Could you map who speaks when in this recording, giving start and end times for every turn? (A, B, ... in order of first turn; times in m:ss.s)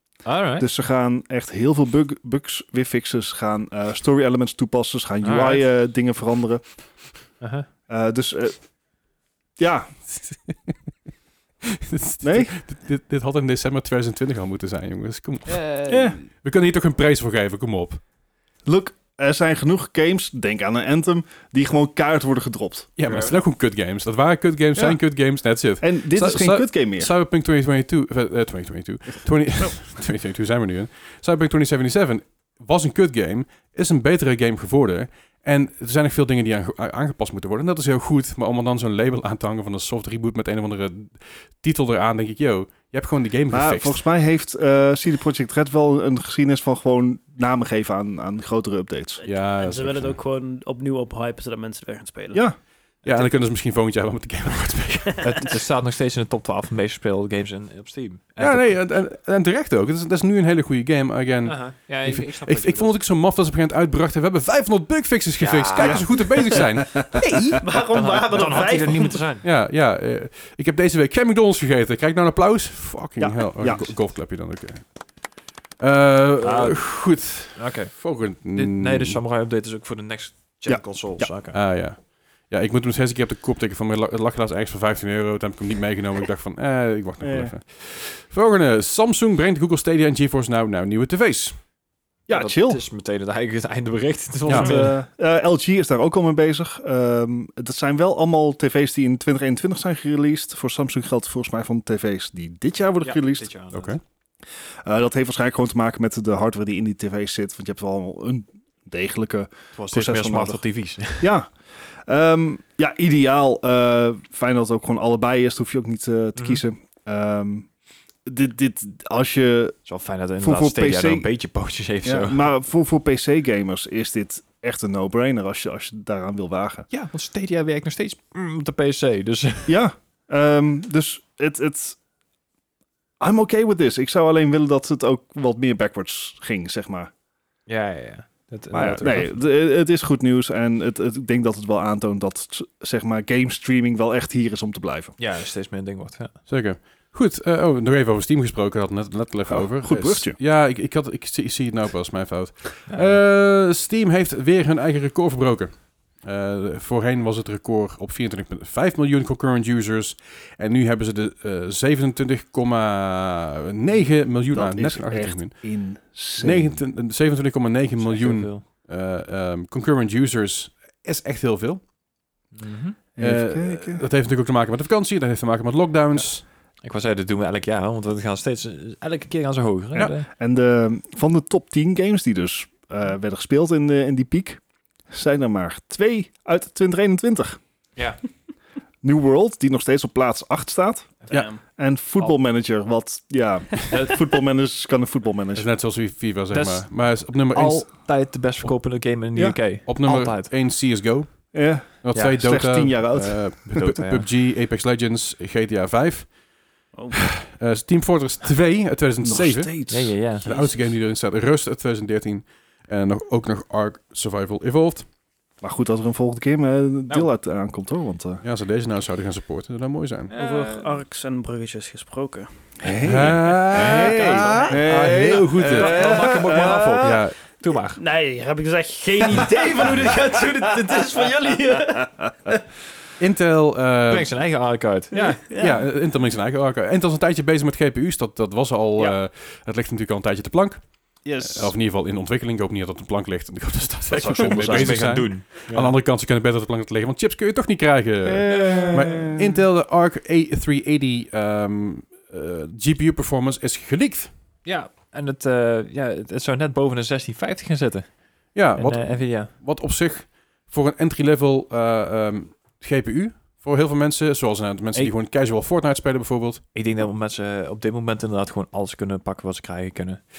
0:00.2-0:00.7 A
0:00.6-0:06.6 B
0:05.2-0:05.7 A
0:07.4-0:07.7 A
0:07.9-0:08.6 B
0:09.6-0:09.9 B
0:11.6-0:15.6 C
0:12.2-0:12.5 B
0:15.5-0:16.2 A
0:15.9-0:16.2 B
0:16.4-0:18.0 C
0:18.7-0:22.9 B
0:23.0-0:44.0 C
0:23.0-0:23.4 A
0:24.8-0:25.0 B
0:25.8-0:27.1 B
0:43.5-0:49.2 B
0:49.2-0:52.4 D
0:49.2-0:50.2 C
0:52.3-0:52.6 B
0:53.0-0:55.3 C
0:55.2-0:58.9 A
0:58.4-1:07.6 C
1:01.4-1:03.0 A
1:05.4-1:06.5 A
1:05.8-1:07.4 B
1:07.6-1:09.2 D
1:07.8-1:09.4 A
1:09.4-1:14.9 C
1:13.2-1:14.0 B
1:15.8-1:19.2 C
1:16.4-1:21.6 A
1:20.7-1:21.3 B
1:21.5-1:31.6 C
1:27.2-1:27.5 B
1:32.3-1:32.8 B
1:32.3-1:35.0 A
1:34.5-1:34.8 C
1:34.5-1:43.5 B
1:43.0-1:44.0 A
1:43.7-1:44.0 C
1:44.8-1:50.6 B
1:49.8-1:51.3 A
1:51.2-1:51.5 B
1:52.0-1:57.7 B
1:56.4-1:56.6 A
1:58.2-1:59.8 B
1:59.9-2:02.4 A
2:00.4-2:01.3 B
2:02.0-2:06.9 B
2:06.9-2:09.8 A
2:09.7-2:12.0 B
2:13.2-2:17.1 B
2:17.7-2:19.4 A
2:18.7-2:25.2 B
2:25.2-2:26.4 A
2:26.5-2:45.6 C
2:29.5-2:30.4 B
2:32.9-2:33.2 A
2:44.4-2:46.8 B
2:46.4-2:51.8 C
2:48.0-2:48.6 A
2:52.6-2:53.0 A
2:53.2-2:54.0 B
2:53.2-2:56.4 C
2:56.8-3:00.3 A
3:00.1-3:07.6 B
3:08.0-3:08.2 A
3:09.0-3:15.7 B
3:11.3-3:11.6 D
3:15.6-3:17.9 C
3:16.5-3:20.5 A
3:19.9-3:26.3 C
3:21.5-3:23.6 B
3:22.1-3:22.4 A
3:23.8-3:24.3 A
3:26.9-3:27.2 D
3:27.1-3:35.1 C
3:29.2-3:30.2 B
3:29.9-3:30.5 A
3:35.6-3:38.4 B
3:38.4-3:40.3 C
3:40.3-3:41.0 A
3:40.3-3:42.5 D
3:42.8-3:47.2 B
3:43.0-3:46.1 C
3:43.7-3:48.0 A
3:47.0-3:47.4 C
3:48.0-3:52.5 D
3:53.2-3:54.4 C
3:54.1-3:55.4 A
3:55.1-3:55.8 D
3:55.6-4:14.3 C
4:01.2-4:01.7 B
4:04.1-4:05.2 B
4:04.4-4:05.9 A
4:08.2-4:09.6 B
4:08.5-4:09.3 A
4:14.6-4:18.2 A
4:18.5-4:26.6 C
4:18.8-4:19.5 A
4:26.8-4:30.2 A